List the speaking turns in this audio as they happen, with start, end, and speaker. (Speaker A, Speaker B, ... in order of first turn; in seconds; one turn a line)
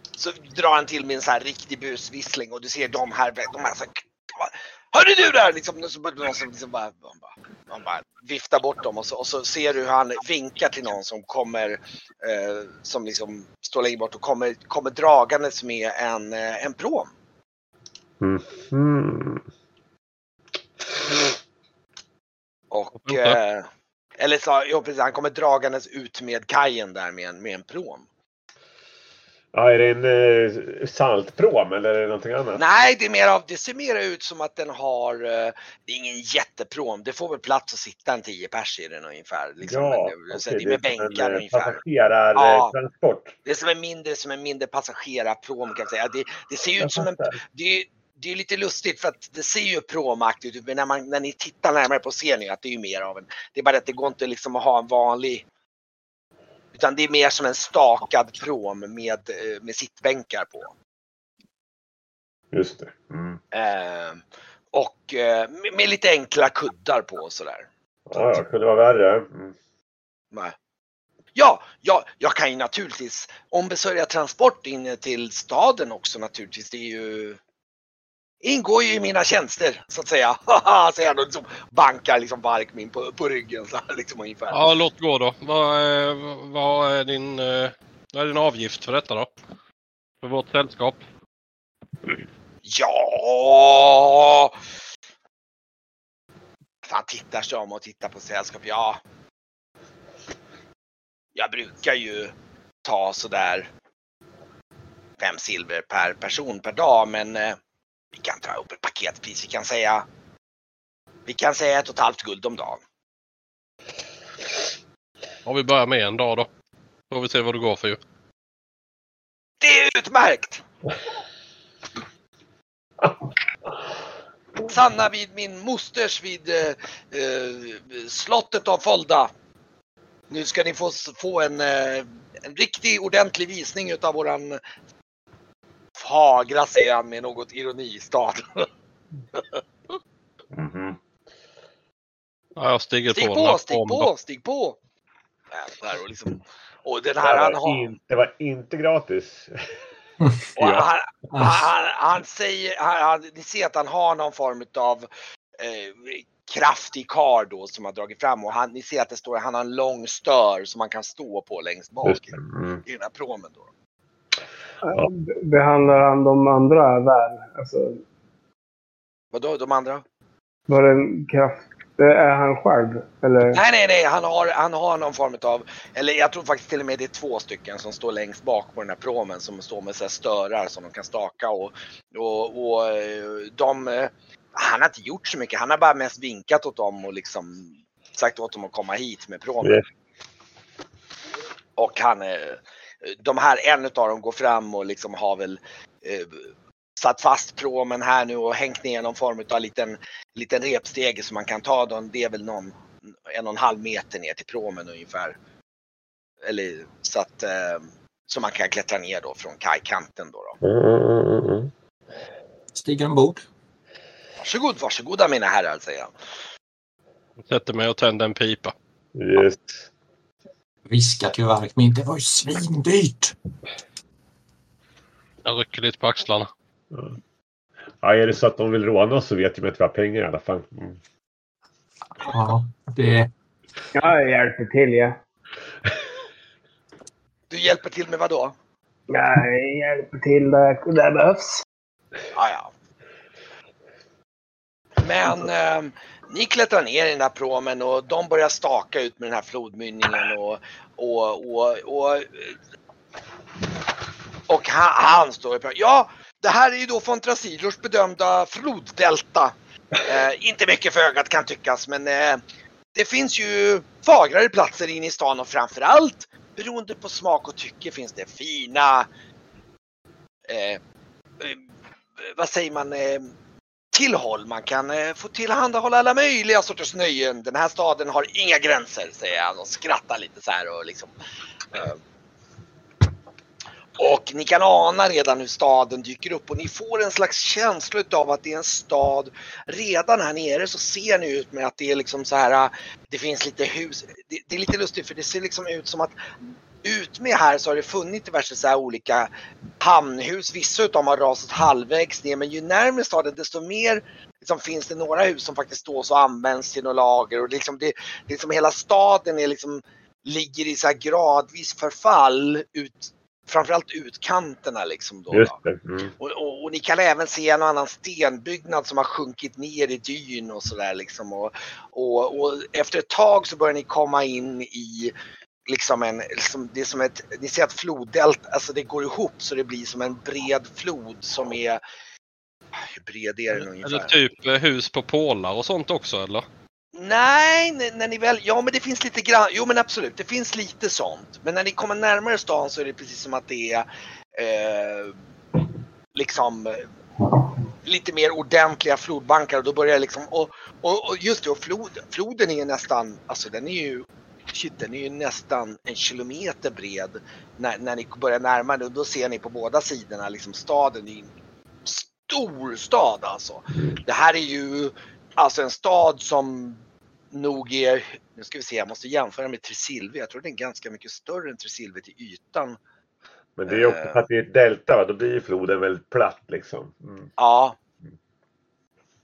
Speaker A: 0.2-17.1
Speaker B: 18.2-19.4
Speaker A: 22.7-23.7
Speaker C: 23.1-23.4
Speaker A: 24.2-28.1
Speaker B: 29.5-32.6
Speaker A: 32.6-41.8
Speaker B: 39.6-43.4
Speaker A: 42.4-42.7
Speaker A: 43.5-55.5
Speaker B: 46.8-47.4
Speaker A: 56.7-60.7
Speaker B: 62.5-63.4
Speaker A: 63.5-68.3
Speaker B: 68.1-69.6
Speaker A: 71.4-77.4
Speaker A: 78.4-84.7
Speaker C: 84.5-89.3
Speaker C: 90.2-91.0
Speaker A: 92.6-94.6
Speaker A: 96.8-99.0
Speaker A: 101.3-102.3
Speaker A: 102.8-103.7
Speaker A: 105.2-107.6
Speaker A: 108.2-110.1
Speaker A: 111.3-112.8
Speaker C: 115.5-116.5
Speaker C: 117.1-118.0
Speaker A: 119.6-120.6
Speaker A: 124.7-129.3
Speaker A: 130.3-134.6
Speaker A: 136.0-138.7
Speaker B: 140.5-141.0
Speaker C: 142.6-144.1
Speaker A: 143.1-144.8
Speaker A: 145.5-147.9
Speaker B: 147.2-149.6
Speaker B: 150.6-150.9
Speaker A: 150.6-155.1
Speaker D: 151.3-151.6
Speaker A: 155.6-163.7
Speaker B: 162.0-162.8
Speaker E: 164.8-168.0
Speaker A: 169.3-170.0
Speaker E: 170.7-173.6
Speaker A: 173.5-189.8
Speaker A: 191.8-205.4
Speaker A: 206.4-210.6
Speaker B: 210.6-211.7
Speaker D: 212.7-213.5
Speaker A: 214.4-216.1
Speaker C: 217.5-218.8
Speaker B: 219.2-219.9
Speaker D: 220.9-223.3
Speaker C: 225.4-226.5
Speaker B: 226.9-227.2
Speaker B: 228.0-231.0
Speaker D: 232.2-233.3
Speaker E: 233.9-235.2
Speaker A: 237.5-238.6
Speaker E: 239.1-241.6
Speaker A: 242.3-242.7
Speaker A: 245.0-252.5
Speaker A: 254.5-262.4
Speaker A: 262.9-269.1
Speaker A: 270.5-270.8
Speaker A: 272.2-273.3
Speaker A: 273.9-281.1
Speaker A: 281.7-282.0
Speaker A: 284.0-296.1
Speaker A: 296.8-299.3
Speaker A: 299.8-315.6
Speaker B: 315.3-316.1
Speaker A: 316.2-325.1
Speaker A: 325.7-331.8
Speaker A: 332.8-334.1
Speaker C: 333.6-336.5
Speaker A: 336.9-345.2
Speaker A: 346.1-346.9
Speaker A: 347.9-361.3
Speaker A: 361.9-372.8
Speaker B: 373.6-377.3
Speaker A: 373.7-374.2
Speaker A: 377.4-377.8